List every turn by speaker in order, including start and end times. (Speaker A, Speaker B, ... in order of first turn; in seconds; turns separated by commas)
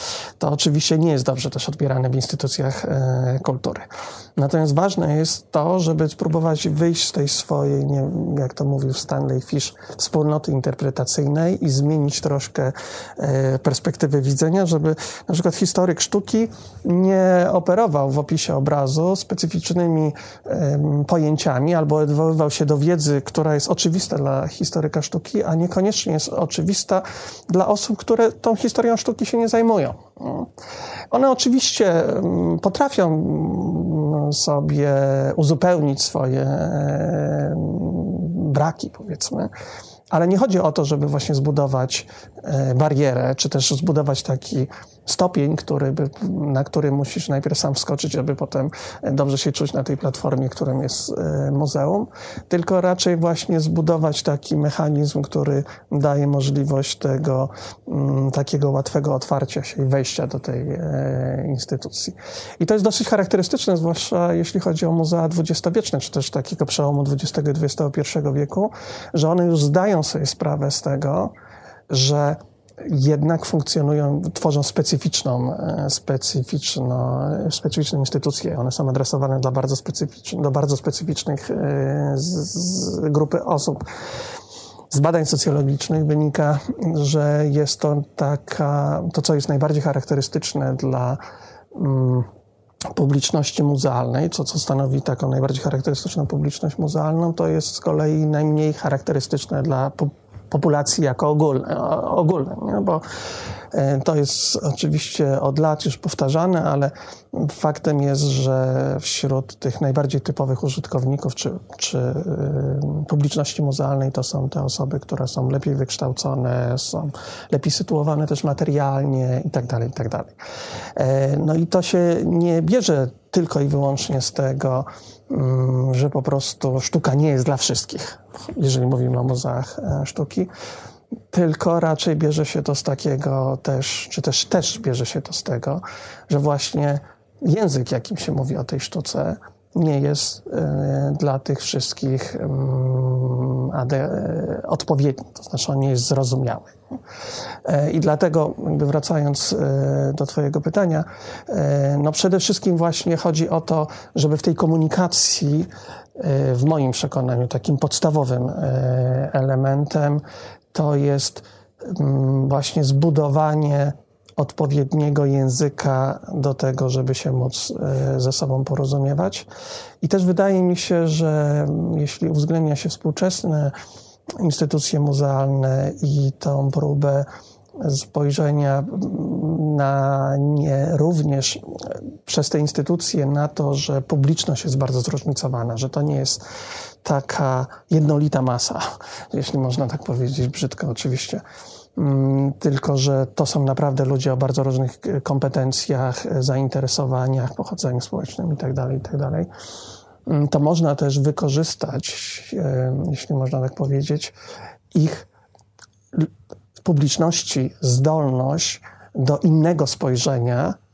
Speaker A: 0.4-30.5, Speaker A: 31.1-39.5, Speaker A: 40.1-71.3, Speaker A: 71.9-83.8, Speaker A: 84.9-91.2, Speaker A: 91.7-92.3, Speaker A: 92.9-120.4, Speaker A: 121.0-130.5, Speaker A: 131.3-147.0, Speaker A: 147.7-169.5, Speaker A: 170.0-173.8, Speaker A: 174.4-177.3, Speaker A: 177.8-186.4, Speaker A: 187.0-191.4, Speaker A: 192.0-199.5, Speaker A: 200.2-204.3, Speaker A: 204.9-205.3, Speaker A: 206.1-210.8